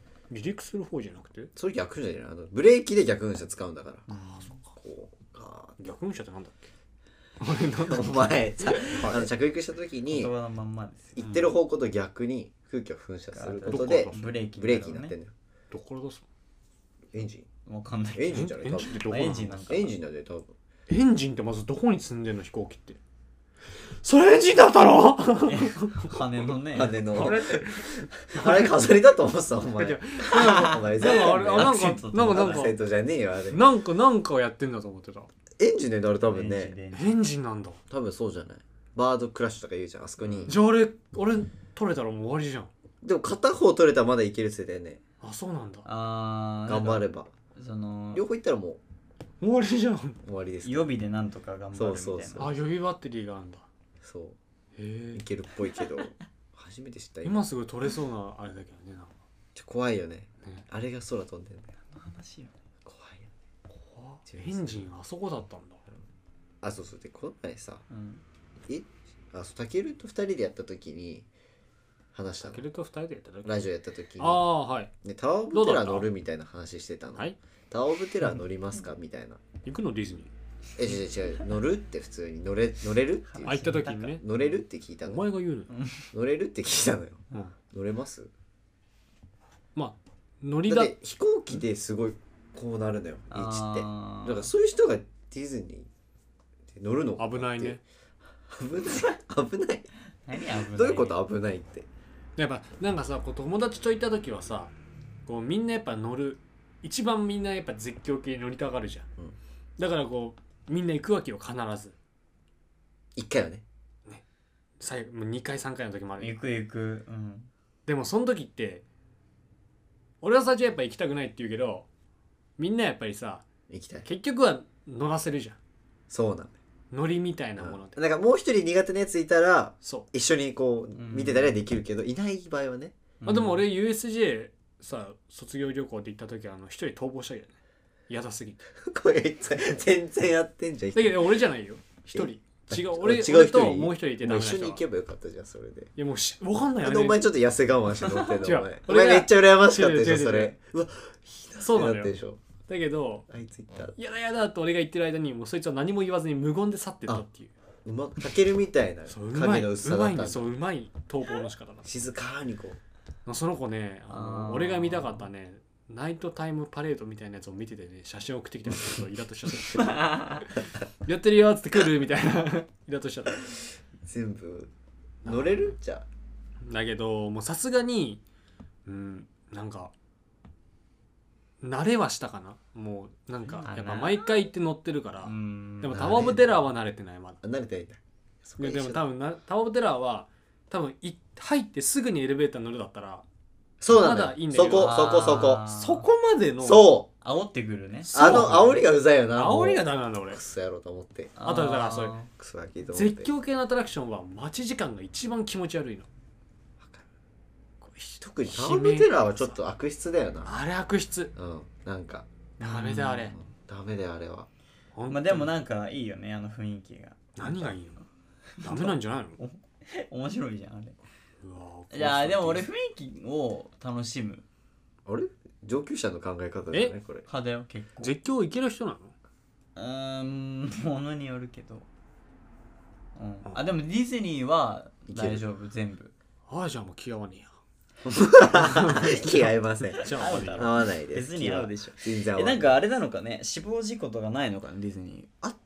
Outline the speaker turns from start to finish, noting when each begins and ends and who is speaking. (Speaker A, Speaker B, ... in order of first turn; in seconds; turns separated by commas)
Speaker A: 0.3-1.5, Speaker B: 1.6-4.1, Speaker C: 4.1-4.5, Speaker A: 4.1-4.7, Speaker B: 4.7-5.8, Speaker A: 5.8-6.7, Speaker A: 7.4-9.2, Speaker B: 7.8-10.3, Speaker C: 10.1-11.2, Speaker B: 11.2-15.3, Speaker A: 11.2-11.5, Speaker C: 13.3-15.2, Speaker A: 13.7-14.3, Speaker A: 15.7-16.2, Speaker B: 17.1-17.5, Speaker C: 17.6-19.9, Speaker B: 18.1-19.0, Speaker A: 18.3-19.8, Speaker B: 19.7-20.5, Speaker A: 20.9-23.0, Speaker A: 24.0-26.2, Speaker C: 25.5-27.2, Speaker B: 26.7-33.6, Speaker A: 27.1-28.7, Speaker A: 29.8-32.7, Speaker C: 30.2-32.7, Speaker A: 33.5-35.3, Speaker B: 35.6-36.7, Speaker C: 36.2-37.2, Speaker A: 36.9-37.8, Speaker B: 37.9-40.6, Speaker C: 40.2-40.5, Speaker A: 40.5-42.7, Speaker B: 43.0-45.0, Speaker A: 45.2-45.9, Speaker C: 45.8-47.0, Speaker B: 46.7-47.3, Speaker C: 47.5-48.2, Speaker B: 48.1-48.8, Speaker A: 49.4-50.2, Speaker B: 50.2-50.9, Speaker C: 50.6-52.5, Speaker B: 51.7-52.5, Speaker A: 52.4-53.7, Speaker B: 54.0-54.4, Speaker A: 54.8-55.2, Speaker B: 55.1-57.4, Speaker A: 57.2-59.2, Speaker B: 59.5-61.7, Speaker C: 61.9-62.5, Speaker B: 62.8-63.3, Speaker A: 63.9-65.8, Speaker B: 64.2-64.9, Speaker B: 66.6-67.8, Speaker C: 67.9-68.2, Speaker B: 68.7-71.3, Speaker B: 72.1-72.6, Speaker A: 72.4-73.6, Speaker B: 73.4-74.5, Speaker A: 74.2-74.9, Speaker B: 75.0-79.4, Speaker A: 75.5-76.1, Speaker A: 79.6-80.3, Speaker B: 80.8-85.2, Speaker C: 83.3-84.2, Speaker A: 83.4-84.2, Speaker A: 85.0-85.7, Speaker C: 85.7-86.1, Speaker B: 86.1-88.3, Speaker A: 89.7-90.9, Speaker B: 90.7-95.9, Speaker C: 93.3-94.5, Speaker B: 96.7-97.8, Speaker A: 97.2-97.8, Speaker B: 98.5-99.9, Speaker C: 100.2-101.2, Speaker B: 100.5-101.9, Speaker A: 102.4-104.7, Speaker A: 105.3-109.1, Speaker A: 109.8-111.9, Speaker B: 113.1-113.6, Speaker A: 114.8-116.4, Speaker C: 116.2-117.5, Speaker A: 117.8-118.8, Speaker A: 120.2-121.9, Speaker A: 122.6-123.5, Speaker B: 123.7-124.1, Speaker A: 124.0-125.6, Speaker B: 126.1-126.5, Speaker A: 126.9-128.0, Speaker B: 127.6-133.0, Speaker C: 130.9-131.6, Speaker C: 133.2-133.6, Speaker A: 133.2-137.5, Speaker A: 138.1-138.7, Speaker B: 138.8-141.3, Speaker A: 140.9-144.8, Speaker B: 142.1-145.9, Speaker A: 146.0-147.2, Speaker B: 146.8-152.4, Speaker A: 148.4-150.5, Speaker A: 151.6-153.2, Speaker B: 153.3-153.9, Speaker A: 153.9-157.5, Speaker B: 157.8-160.5, Speaker A: 159.1-161.9, Speaker B: 161.8-162.8, Speaker A: 163.2-173.5, Speaker C: 164.1-165.3, Speaker C: 169.8-170.4, Speaker B: 174.0-174.7, Speaker A: 175.2-175.7, Speaker B: 175.2-176.1, Speaker A: 176.6-178.2, Speaker A: 178.8-179.9, Speaker A: 181.6-187.4, Speaker C: 183.5-184.3, Speaker C: 185.2-186.3, Speaker B: 185.9-186.5, Speaker B: 187.4-189.0, Speaker A: 188.6-193.2, Speaker B: 193.8-195.6, Speaker A: 193.9-195.0, Speaker C: 194.6-196.1, Speaker A: 195.7-196.9, Speaker B: 196.6-197.1, Speaker C: 197.2-198.6, Speaker A: 198.0-200.4, Speaker B: 198.1-201.3, Speaker C: 201.4-202.3, Speaker A: 201.4-202.2, Speaker B: 202.3-203.3, Speaker A: 202.9-206.1, Speaker B: 206.8-207.0, Speaker A: 207.8-209.6, Speaker B: 208.2-210.5, Speaker A: 210.4-211.3, Speaker B: 211.3-212.3, Speaker A: 212.6-213.3, Speaker C: 212.6-213.3, Speaker B: 213.2-214.5, Speaker A: 214.9-215.5, Speaker C: 215.1-217.6, Speaker A: 217.3-218.0, Speaker C: 218.6-221.0, Speaker A: 218.6-219.4, Speaker A: 221.4-222.7, Speaker C: 221.9-224.4, Speaker B: 225.1-227.2, Speaker C: 227.3-228.1, Speaker A: 228.0-229.1, Speaker C: 229.8-231.8, Speaker C: 233.1-236.1, Speaker B: 235.1-235.4, Speaker A: 236.5-237.5, Speaker B: 238.0-242.7, Speaker A: 238.6-240.7, Speaker C: 239.9-245.3